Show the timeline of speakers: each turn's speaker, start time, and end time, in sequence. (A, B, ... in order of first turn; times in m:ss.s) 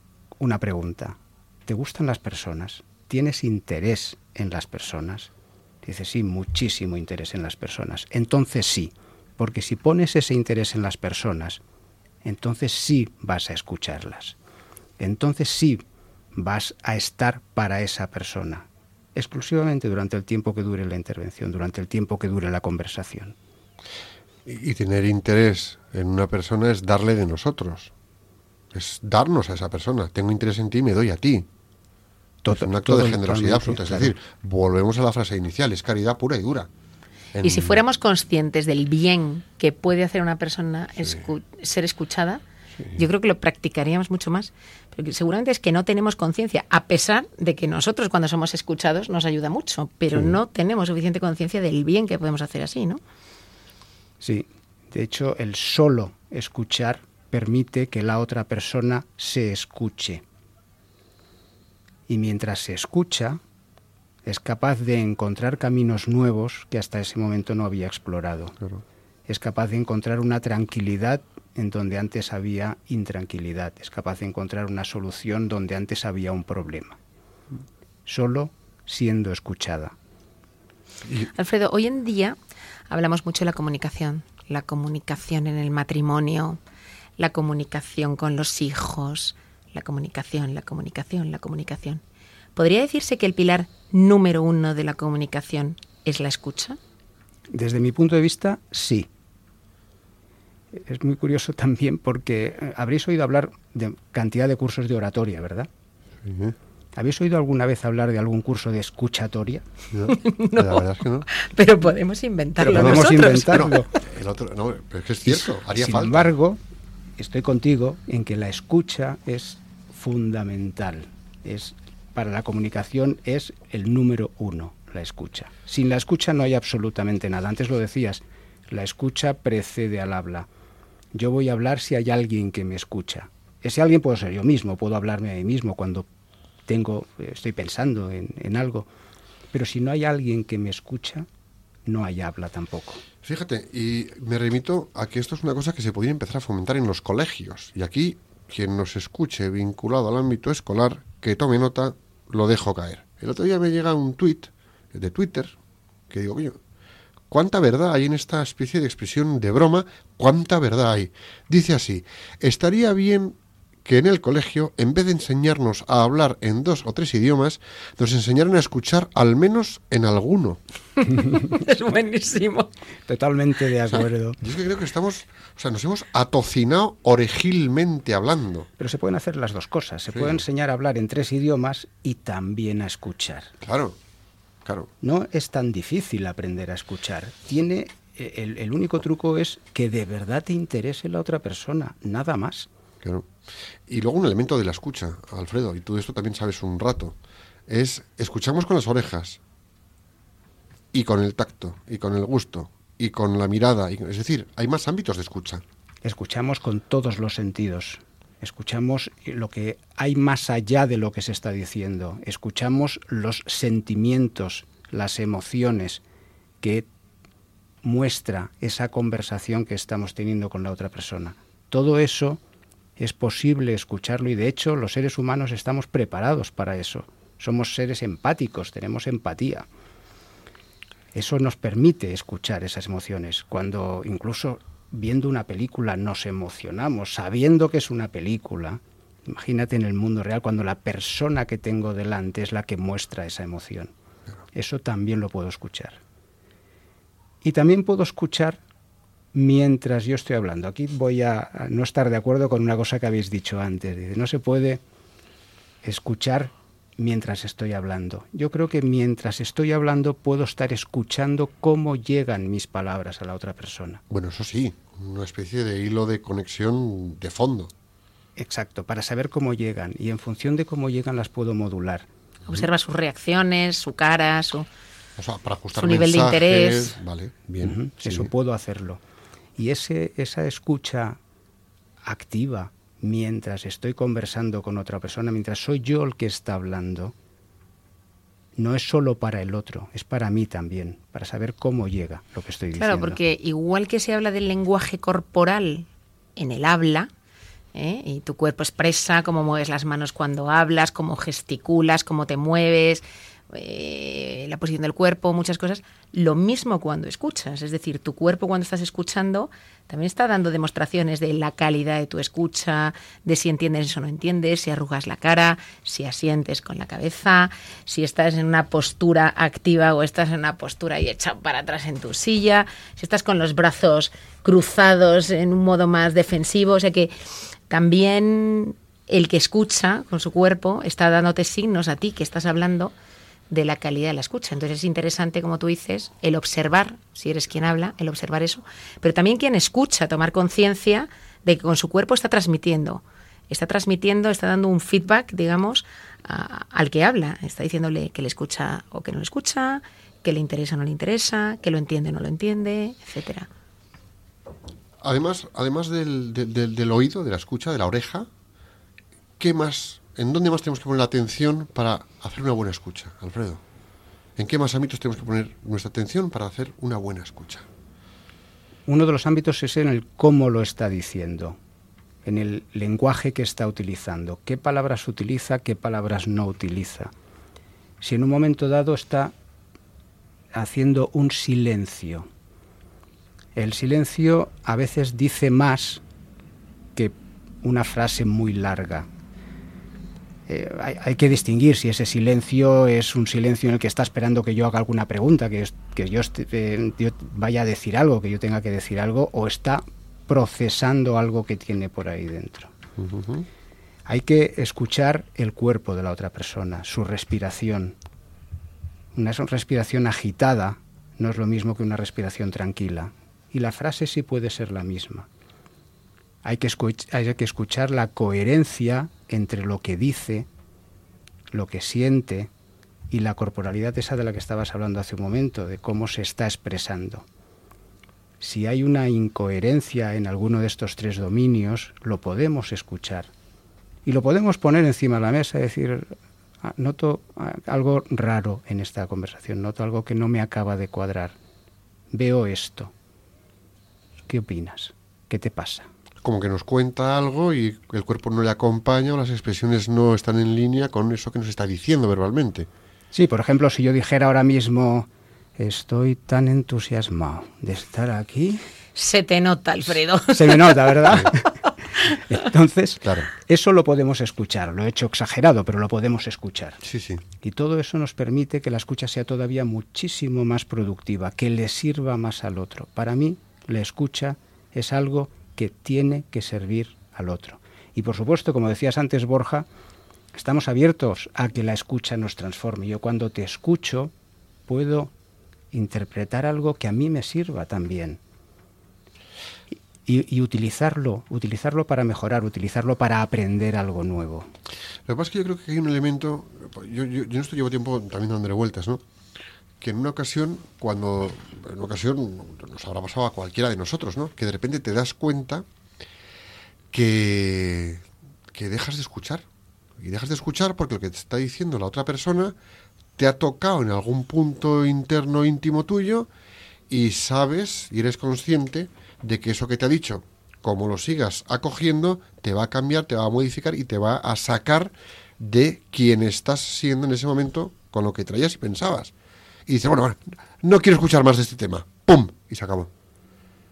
0:00.4-0:05.3 A
0:05.8-0:11.6 A
0:12.2-0:14.4 A
0:15.0-0:15.8 A
0:16.4-0:23.4 A
0:24.4-0:27.9 B
0:28.7-0:31.5 B
0:32.4-0:34.1 A
0:32.5-0:36.7 B
0:37.4-0:37.8 B
0:37.4-0:42.4 C
0:42.9-0:53.0 C
0:54.2-1:00.2 A
1:02.1-1:03.4 A
1:04.2-1:08.6 A
1:09.3-1:17.0 A
1:18.1-1:19.9 A
1:21.3-1:22.4 C
1:22.9-1:26.6 C
1:27.2-1:32.0 C
1:32.6-1:36.8 C
1:37.5-1:39.1 A
1:40.7-1:45.7 A
1:46.2-1:46.6 B
1:47.0-1:49.7 A
1:49.9-1:51.3 B
1:50.1-1:53.9 C
1:52.6-1:53.9 A
1:52.7-1:56.3 B
1:55.3-1:56.6 A
1:57.2-2:10.5 A
2:11.1-2:16.1 A
2:16.7-2:18.9 A
2:19.5-2:21.3 A
2:21.9-2:23.0 A
2:23.2-2:35.6 B
2:36.1-2:36.6 B
2:37.3-2:50.6 B
2:51.0-2:52.7 C
2:53.1-2:54.4 A
2:53.9-2:58.7 B
2:58.8-3:03.5 A
3:00.1-3:00.4 B
3:03.6-3:04.0 B
3:04.6-3:04.9 B
3:05.0-3:12.7 A
3:13.0-3:13.3 B
3:13.9-3:17.2 B
3:17.7-3:19.4 B
3:20.9-3:25.6 B
3:26.0-3:36.0 A
3:36.6-3:36.9 A
3:37.8-3:42.4 A
3:43.0-3:49.7 A
3:51.1-4:03.9 A
4:04.5-4:06.0 A
4:07.4-4:08.6 A
4:09.3-4:14.8 A
4:15.8-4:24.0 A
4:24.1-4:27.7 B
4:28.4-4:32.1 A
4:32.5-4:34.7 C
4:35.2-4:38.3 B
4:35.7-4:37.0 C
4:37.6-4:39.0 A
4:39.6-4:41.2 A
4:42.0-4:47.1 A
4:48.6-4:53.2 A
4:52.7-4:57.1 C
4:57.7-5:27.1 C
5:27.7-5:32.9 C
5:33.5-5:53.5 C
5:55.0-5:58.3 B
5:59.4-6:03.6 B
6:04.4-6:07.7 B
6:08.9-6:11.6 A
6:12.2-6:17.1 A
6:18.0-6:19.3 A
6:20.5-6:22.3 A
6:23.6-6:26.0 A
6:27.0-6:29.1 A
6:30.5-6:42.7 A
6:43.0-6:43.4 B
6:44.1-6:48.0 A
6:49.1-6:55.3 A
6:56.4-7:00.5 A
7:01.5-7:02.5 A
7:03.1-7:07.2 A
7:08.4-7:13.3 A
7:14.0-7:21.4 A
7:22.1-7:22.9 A
7:24.3-7:25.9 A
7:26.2-7:32.7 B
7:33.1-7:38.6 A
7:39.0-7:41.4 C
7:40.4-7:41.5 A
7:42.3-7:46.8 A
7:43.0-7:43.3 B
7:46.8-7:47.2 B
7:47.4-7:59.7 A
8:00.3-8:04.1 A
8:04.7-8:05.1 A
8:05.7-8:08.2 A
8:10.0-8:14.5 A
8:15.1-8:19.0 B
8:19.8-8:25.6 B
8:26.9-8:29.4 B
8:30.0-8:32.6 B
8:33.2-8:36.3 B
8:36.9-8:49.1 B
8:49.7-8:52.9 B